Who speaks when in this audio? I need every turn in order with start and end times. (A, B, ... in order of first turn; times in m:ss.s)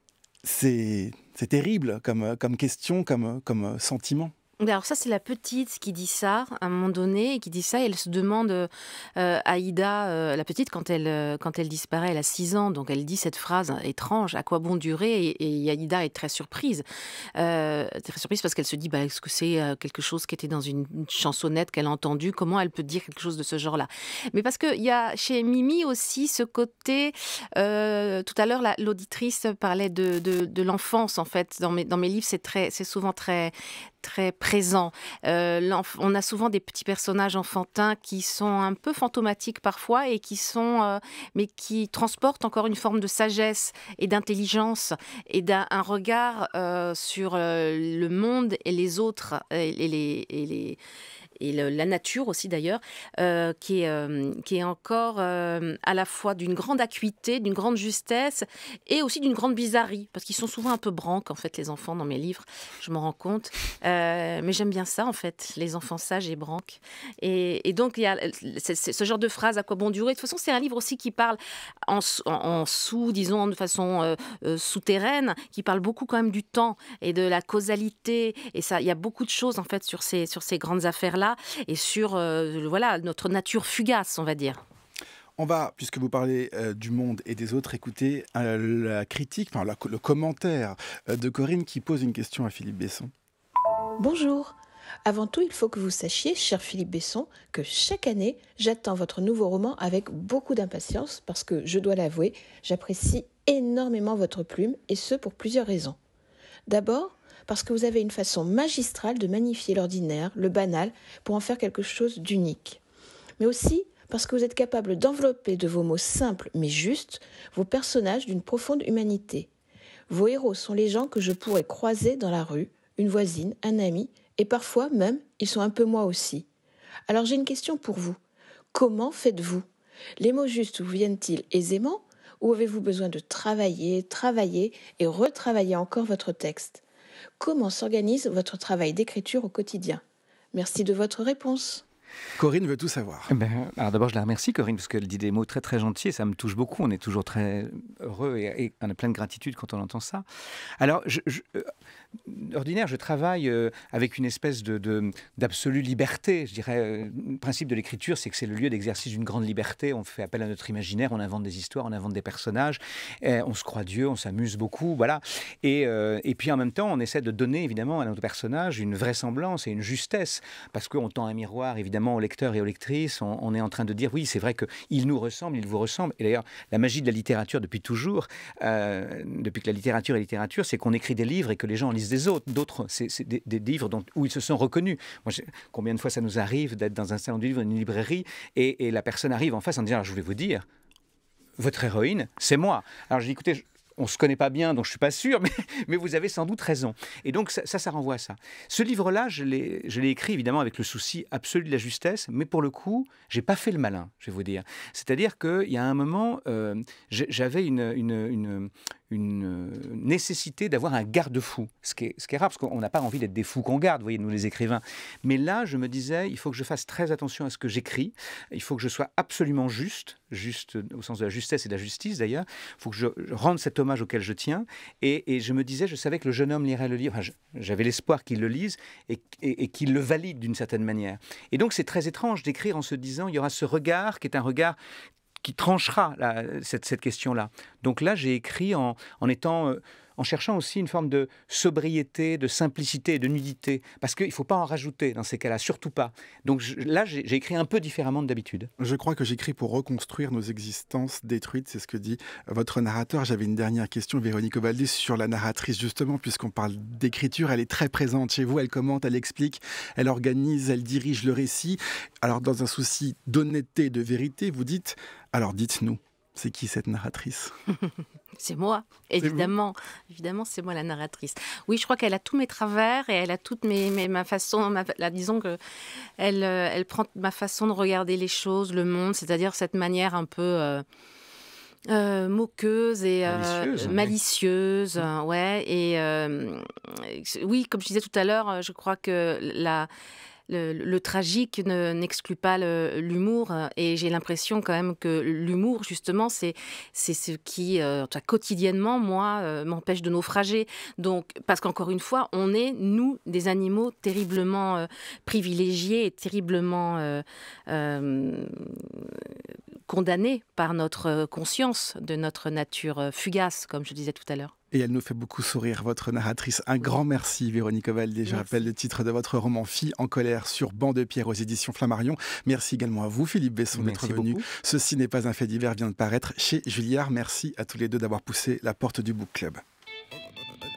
0:00.4-0:04.3 A
0:04.6-0:50.8 B
0:51.4-1:24.6 B
1:25.4-1:33.1 A
1:34.0-1:46.0 C
1:46.7-1:52.8 C
1:53.4-1:59.5 C
2:00.1-2:06.4 C
2:07.1-2:08.2 C
2:08.7-2:09.6 C
2:10.2-2:16.8 C
2:17.4-2:20.0 C
2:20.5-2:21.8 C
2:22.4-2:23.3 A
2:23.3-2:30.2 D
2:30.8-2:31.7 D
2:32.2-3:10.6 D
3:11.6-3:54.8 D
3:55.4-4:08.7 D
4:08.8-4:27.5 A
4:28.4-4:35.6 B
4:29.2-4:29.5 A
4:36.2-4:40.8 B
4:41.9-4:49.9 B
4:43.3-4:44.1 D
4:50.5-5:09.2 B
5:09.9-5:14.5 B
5:14.7-5:29.6 A
5:18.3-5:18.6 B
5:23.7-5:24.5 D